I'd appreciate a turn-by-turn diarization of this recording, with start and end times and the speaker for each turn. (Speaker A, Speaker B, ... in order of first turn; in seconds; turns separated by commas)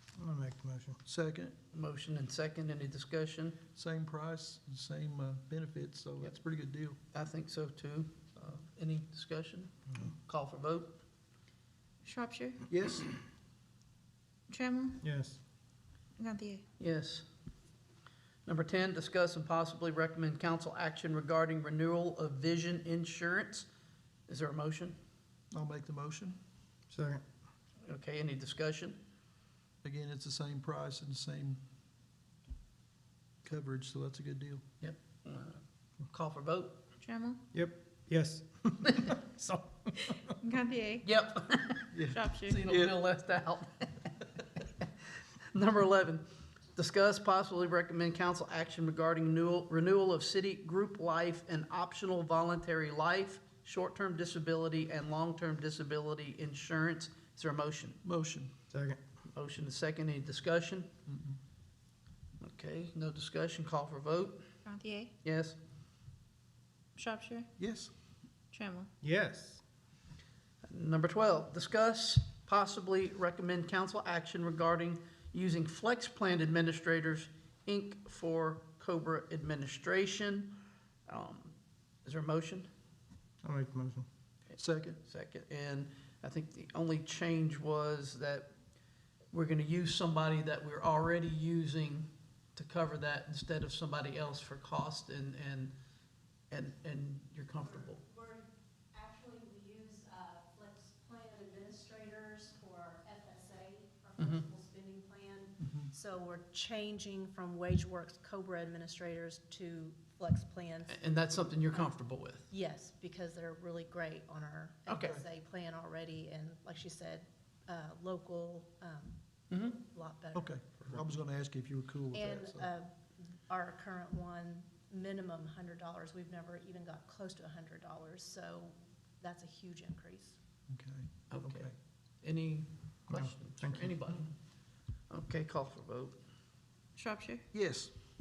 Speaker A: 0.2-1.0, Speaker B: 1.1-1.5, Speaker C: 1.7-3.6, Speaker B: 3.8-7.0, Speaker C: 7.1-11.0, Speaker D: 12.0-12.6, Speaker B: 12.7-13.1, Speaker D: 14.5-15.0, Speaker A: 15.0-15.4, Speaker D: 16.2-16.6, Speaker C: 16.8-17.2, Speaker C: 18.4-23.7, Speaker C: 24.3-25.0, Speaker B: 25.5-26.4, Speaker A: 26.9-27.2, Speaker C: 27.9-29.0, Speaker B: 29.8-31.6, Speaker B: 33.4-34.6, Speaker C: 34.8-36.8, Speaker D: 37.0-37.4, Speaker A: 37.5-40.2, Speaker D: 40.4-41.1, Speaker C: 41.0-41.9, Speaker B: 41.9-42.9, Speaker D: 42.1-42.6, Speaker C: 42.5-44.2, Speaker C: 45.5-46.2, Speaker C: 46.8-58.0, Speaker B: 58.0-58.5, Speaker A: 58.7-59.0, Speaker C: 59.3-60.9, Speaker B: 61.1-61.4, Speaker C: 62.4-64.4, Speaker D: 64.6-65.1, Speaker C: 65.2-65.6, Speaker D: 67.0-67.5, Speaker B: 67.6-67.9, Speaker D: 68.5-68.9, Speaker A: 69.0-69.6, Speaker C: 70.7-80.5, Speaker C: 81.1-82.7, Speaker A: 83.4-84.0, Speaker B: 84.5-85.0, Speaker C: 85.0-88.5, Speaker C: 89.3-95.7, Speaker C: 96.5-98.0, Speaker E: 97.6-111.0, Speaker C: 104.2-104.4, Speaker C: 110.9-112.5, Speaker E: 112.5-120.7, Speaker C: 114.9-115.2, Speaker C: 119.5-119.8, Speaker B: 120.3-122.7, Speaker E: 122.1-130.4, Speaker B: 130.7-131.7, Speaker C: 131.3-134.3, Speaker A: 133.1-133.9, Speaker C: 135.1-136.2, Speaker D: 137.0-137.4, Speaker B: 137.5-137.9